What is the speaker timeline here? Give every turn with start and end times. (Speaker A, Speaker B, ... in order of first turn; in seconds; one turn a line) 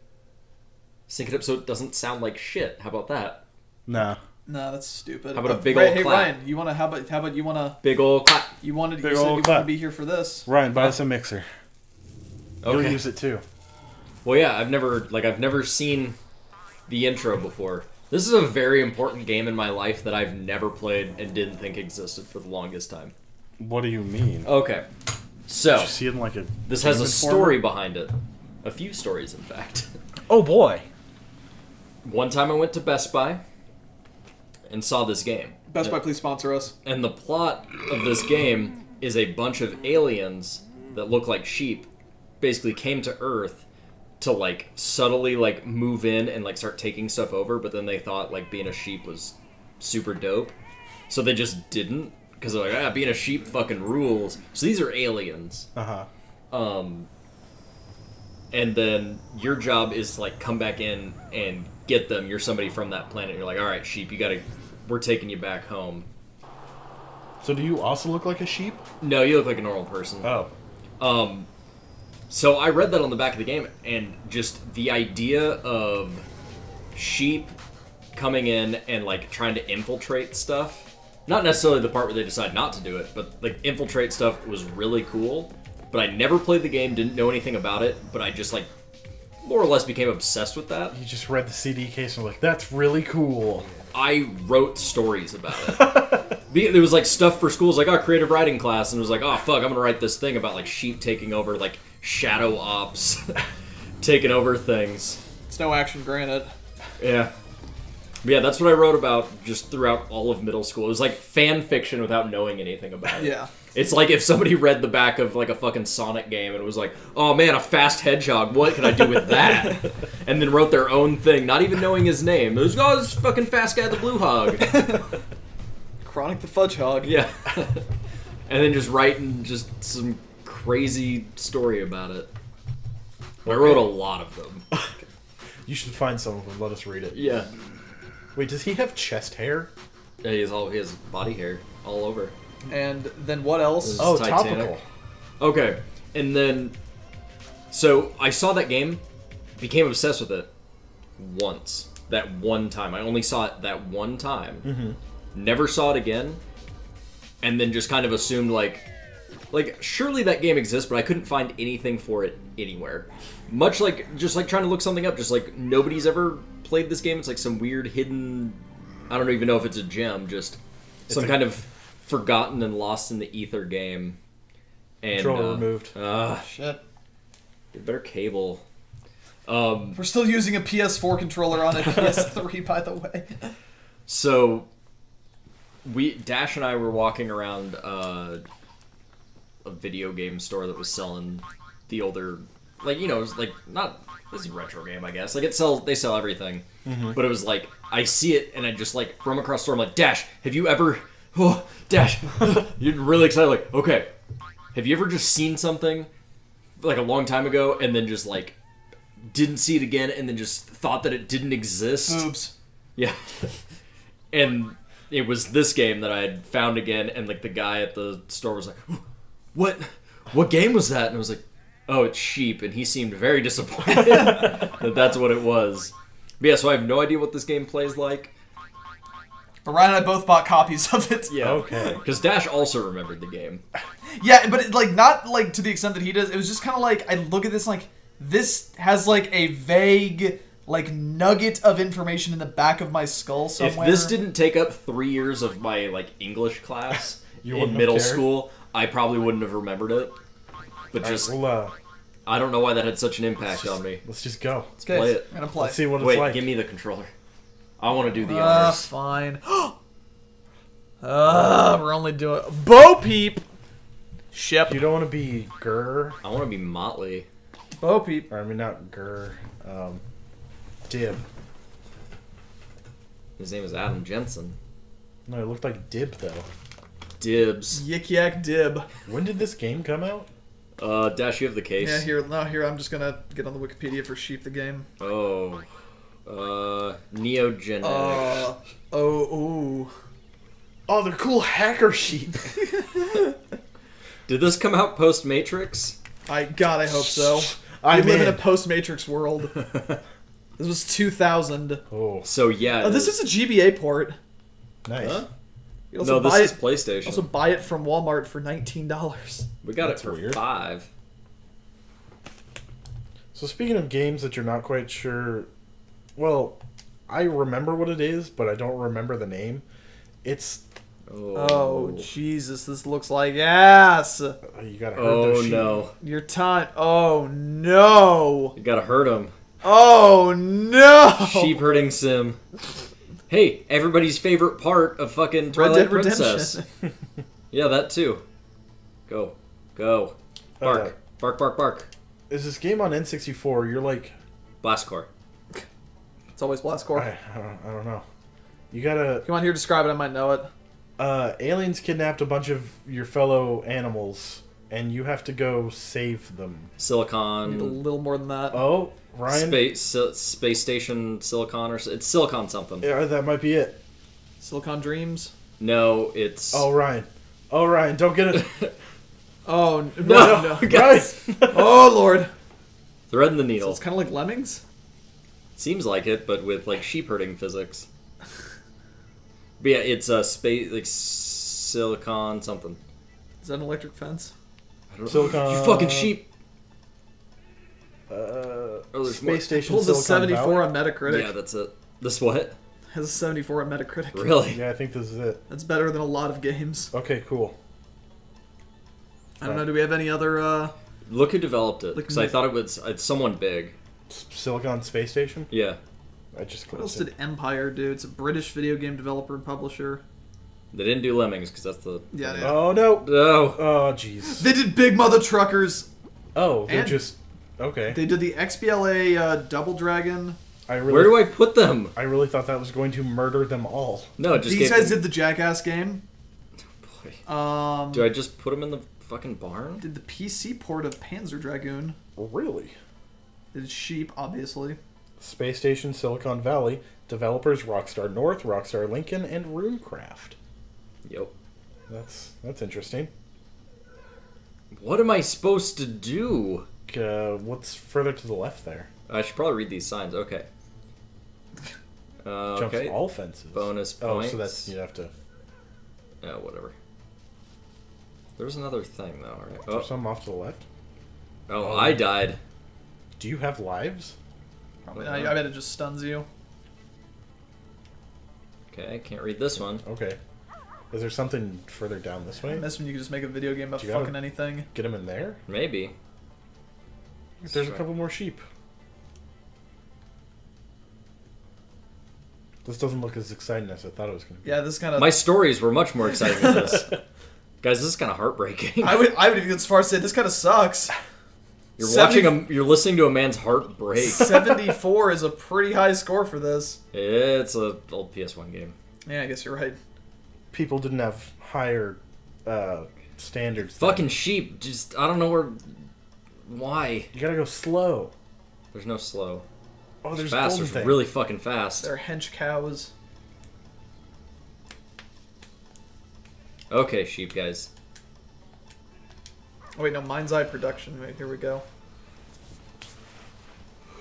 Speaker A: 1.1-3.4
Speaker B: 3.9-4.2
Speaker C: 4.5-7.8
Speaker A: 5.3-6.3
Speaker A: 7.8-8.5
Speaker C: 8.6-10.5
Speaker B: 9.0-9.7
Speaker B: 10.4-11.5
Speaker A: 12.6-13.0
Speaker B: 12.6-13.4
Speaker A: 14.2-16.2
Speaker A: 16.9-23.1
Speaker B: 23.6-24.5
Speaker A: 24.4-24.9
Speaker A: 25.4-26.0
Speaker B: 25.8-27.6
Speaker A: 26.6-29.9
Speaker B: 30.3-30.9
Speaker A: 32.0-33.4
Speaker A: 34.7-36.0
Speaker C: 35.7-36.7
Speaker A: 36.8-41.9
Speaker A: 42.4-43.6
Speaker A: 44.2-50.5
Speaker A: 51.1-55.7
Speaker B: 55.7-56.1
Speaker A: 56.5-57.1
Speaker A: 58.5-66.1
Speaker B: 67.4-68.8
Speaker A: 69.0-70.3
Speaker B: 70.2-70.5
Speaker A: 71.0-71.5
Speaker A: 72.3-76.2
Speaker A: 76.9-77.5
Speaker A: 78.1-88.7
Speaker A: 89.4-91.0
Speaker B: 90.9-93.7
Speaker A: 93.9-103.4
Speaker B: 95.7-96.3
Speaker A: 104.0-105.2
Speaker C: 105.5-106.5
Speaker A: 107.0-107.3
Speaker A: 108.2-124.7
Speaker C: 113.2-113.5
Speaker C: 124.6-125.1
Speaker C: 126.0-127.2
Speaker A: 127.0-127.8
Speaker A: 128.5-132.3
Speaker A: 133.4-134.6
Speaker B: 135.6-137.4
Speaker A: 137.1-137.5
Speaker B: 138.3-139.7
Speaker A: 140.2-142.3
Speaker C: 142.7-144.1
Speaker A: 143.8-144.8
Speaker B: 144.0-144.8
Speaker A: 145.4-146.8
Speaker A: 147.7-149.0
Speaker A: 149.6-150.5
Speaker A: 151.2-154.7
Speaker B: 154.6-155.0
Speaker A: 155.3-156.4
Speaker A: 157.4-158.8
Speaker A: 159.5-174.2
Speaker B: 171.1-171.4
Speaker A: 175.0-176.4
Speaker B: 175.1-175.9
Speaker C: 176.4-176.8
Speaker A: 177.7-178.6
Speaker A: 179.4-180.0
Speaker C: 179.9-183.5
Speaker A: 184.1-184.7
Speaker A: 185.8-188.4
Speaker A: 189.6-204.1
Speaker B: 196.8-197.2
Speaker A: 204.7-206.1
Speaker A: 206.8-208.6
Speaker A: 209.3-212.3
Speaker C: 212.1-212.5
Speaker A: 212.9-213.6
Speaker A: 214.3-228.3
Speaker C: 223.9-224.6
Speaker C: 229.6-231.3
Speaker A: 231.3-233.6
Speaker B: 231.4-232.0
Speaker C: 234.1-244.2
Speaker A: 243.6-250.1
Speaker B: 247.4-248.3
Speaker A: 250.9-251.3
Speaker B: 251.0-251.7
Speaker A: 252.2-254.0
Speaker B: 253.5-254.7
Speaker A: 254.8-255.3
Speaker C: 254.8-255.8
Speaker B: 255.6-256.5
Speaker A: 256.0-257.1
Speaker A: 257.8-258.9
Speaker C: 258.2-259.7
Speaker C: 261.0-263.4
Speaker C: 264.3-264.8
Speaker B: 264.7-266.2
Speaker A: 266.2-267.2
Speaker C: 267.8-268.3
Speaker B: 268.3-270.0
Speaker B: 270.9-271.2
Speaker A: 273.4-274.6
Speaker B: 275.3-276.5
Speaker A: 277.2-277.8
Speaker C: 277.7-278.9
Speaker B: 279.1-280.3
Speaker A: 280.8-282.1
Speaker C: 281.8-284.9
Speaker A: 285.0-285.6
Speaker A: 286.2-288.4
Speaker C: 287.8-289.9
Speaker B: 290.9-292.6
Speaker A: 294.3-296.0
Speaker C: 296.3-299.5
Speaker B: 296.9-298.4
Speaker C: 300.6-301.8
Speaker B: 301.9-302.3
Speaker A: 302.2-303.2
Speaker C: 302.8-304.2
Speaker B: 304.8-305.2
Speaker A: 305.0-305.3
Speaker C: 305.9-309.5
Speaker A: 306.0-307.3
Speaker A: 309.6-310.9
Speaker B: 309.8-310.4
Speaker B: 313.3-315.5
Speaker B: 316.1-316.6
Speaker B: 317.1-319.6
Speaker B: 320.2-320.6
Speaker A: 321.1-322.1
Speaker C: 321.3-324.4
Speaker B: 324.4-325.9
Speaker A: 324.9-325.9
Speaker C: 326.0-328.5
Speaker A: 328.6-329.3
Speaker C: 329.6-331.6
Speaker A: 331.2-332.4
Speaker A: 333.3-336.6
Speaker C: 335.5-336.6
Speaker A: 337.5-338.2
Speaker A: 339.1-341.9
Speaker B: 340.6-340.9
Speaker B: 342.3-344.1
Speaker A: 344.6-345.1
Speaker C: 346.3-347.1
Speaker B: 346.9-348.0
Speaker B: 348.7-349.2
Speaker C: 349.2-350.5
Speaker B: 351.0-356.7
Speaker A: 356.8-357.8
Speaker C: 357.4-358.7
Speaker B: 358.5-359.7
Speaker A: 359.3-362.9
Speaker B: 362.8-363.8
Speaker C: 364.4-365.3
Speaker A: 365.6-366.7
Speaker B: 366.5-368.5
Speaker A: 368.3-368.7
Speaker C: 369.4-370.7
Speaker A: 370.0-371.3
Speaker B: 370.1-371.8
Speaker C: 371.5-372.3
Speaker A: 373.1-373.8
Speaker C: 373.6-374.6
Speaker A: 375.6-377.9
Speaker A: 379.6-382.8
Speaker C: 383.4-384.3
Speaker A: 384.9-386.2
Speaker B: 385.1-386.2
Speaker B: 388.1-390.7
Speaker A: 388.9-389.5
Speaker C: 389.5-391.3
Speaker A: 391.0-392.6
Speaker C: 392.9-394.4
Speaker A: 394.1-394.6
Speaker B: 394.5-395.4
Speaker C: 395.5-396.9
Speaker B: 396.9-397.6
Speaker C: 399.4-400.7
Speaker A: 401.1-403.7
Speaker C: 401.9-402.4
Speaker B: 404.1-405.5
Speaker A: 405.5-405.8
Speaker B: 406.3-407.1
Speaker C: 406.7-410.0
Speaker A: 410.7-413.6
Speaker C: 412.1-412.7
Speaker B: 412.4-414.5
Speaker C: 414.4-415.9
Speaker B: 416.3-418.0
Speaker C: 416.7-417.1
Speaker C: 417.9-420.4
Speaker B: 420.7-421.3
Speaker A: 420.9-421.9
Speaker B: 421.9-424.1
Speaker A: 424.2-425.0
Speaker C: 424.3-426.0
Speaker A: 426.8-427.2
Speaker C: 427.2-428.1
Speaker A: 427.9-429.8
Speaker C: 429.8-432.0
Speaker B: 432.1-432.7
Speaker C: 433.5-434.8
Speaker B: 435.2-440.4
Speaker A: 441.0-441.3
Speaker B: 441.9-443.1
Speaker A: 444.7-446.6
Speaker B: 446.9-448.9
Speaker A: 449.1-450.5
Speaker A: 452.2-453.0
Speaker B: 452.5-455.1
Speaker A: 453.5-454.7
Speaker A: 456.2-456.7
Speaker A: 458.4-459.9
Speaker B: 459.7-460.6
Speaker A: 461.5-462.4
Speaker B: 461.6-462.0
Speaker B: 463.2-464.1
Speaker A: 464.8-465.4
Speaker C: 464.9-466.3
Speaker A: 468.7-469.8
Speaker B: 469.8-470.2
Speaker B: 470.9-472.7
Speaker C: 472.4-474.7
Speaker B: 473.8-474.1
Speaker B: 474.7-475.4
Speaker A: 475.5-475.9
Speaker B: 477.4-478.4
Speaker A: 477.4-477.8
Speaker B: 482.6-484.5
Speaker C: 484.4-485.2
Speaker A: 485.0-486.9
Speaker A: 487.6-489.1
Speaker C: 488.8-490.9
Speaker A: 491.8-494.4
Speaker C: 491.8-492.4
Speaker C: 494.0-496.8
Speaker A: 496.9-498.7
Speaker C: 499.1-499.8
Speaker B: 500.5-504.1
Speaker A: 503.8-505.7
Speaker A: 506.5-507.1
Speaker B: 507.1-508.1
Speaker A: 508.7-509.4
Speaker B: 510.0-511.1
Speaker A: 510.1-511.9
Speaker C: 511.8-512.9
Speaker A: 516.7-517.7
Speaker C: 519.8-521.6